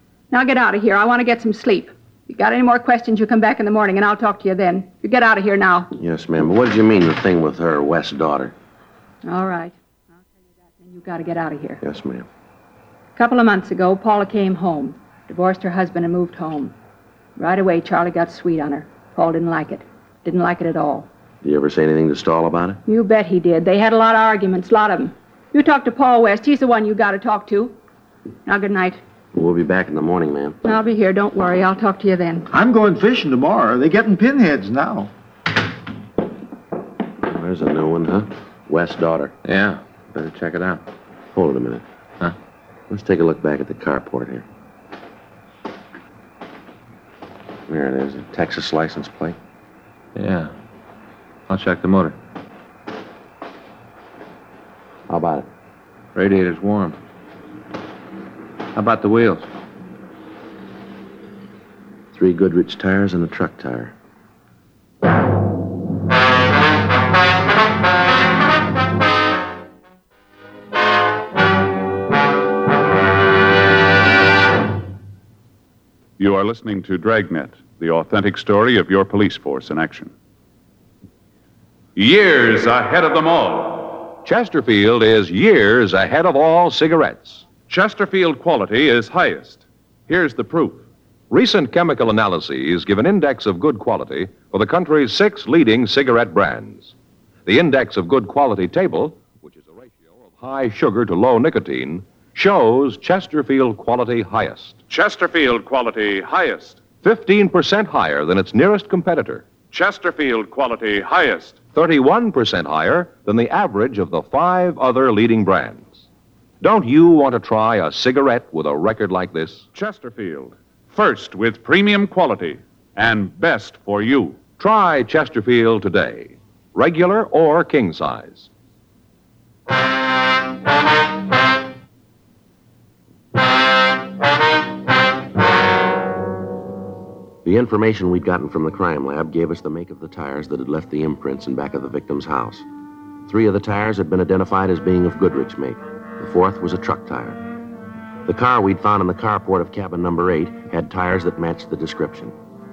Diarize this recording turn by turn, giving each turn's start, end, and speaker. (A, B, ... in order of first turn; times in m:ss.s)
0:00.3-0:05.9 A
0:06.0-0:08.5 B
0:09.2-0:09.7 A
0:10.8-0:11.8 A
0:11.8-0:12.2 B
0:13.2-0:16.7 A
0:17.4-0:21.1 A
0:21.4-0:22.8 B
0:22.8-0:27.7 A
0:28.4-0:29.0 A
0:29.3-0:30.6 B
0:30.6-0:32.5 A
0:32.5-0:35.1 C
0:37.2-0:39.3 B
0:39.4-0:40.8 D
0:41.3-0:41.8 B
0:42.9-0:44.4 B
0:47.7-0:49.4 B
0:50.1-0:50.5 D
0:51.5-0:52.2 D
0:55.1-0:55.5 B
0:56.1-0:57.0 D
0:58.7-0:59.5 D
1:02.1-1:03.9 B
1:16.2-1:20.1 E
1:22.0-1:24.1 E
1:24.2-1:27.5 F
1:27.6-1:30.8 E
1:31.3-1:36.9 F
1:37.4-1:44.8 F
1:44.9-1:46.8 E
1:47.0-1:49.4 F
1:49.7-1:51.6 E
1:51.7-1:56.0 F
1:56.6-1:59.6 F
1:59.7-2:04.4 E
2:04.6-2:08.5 F
2:17.4-2:22.6 B
2:23.3-2:27.4 B
2:28.2-2:32.3 B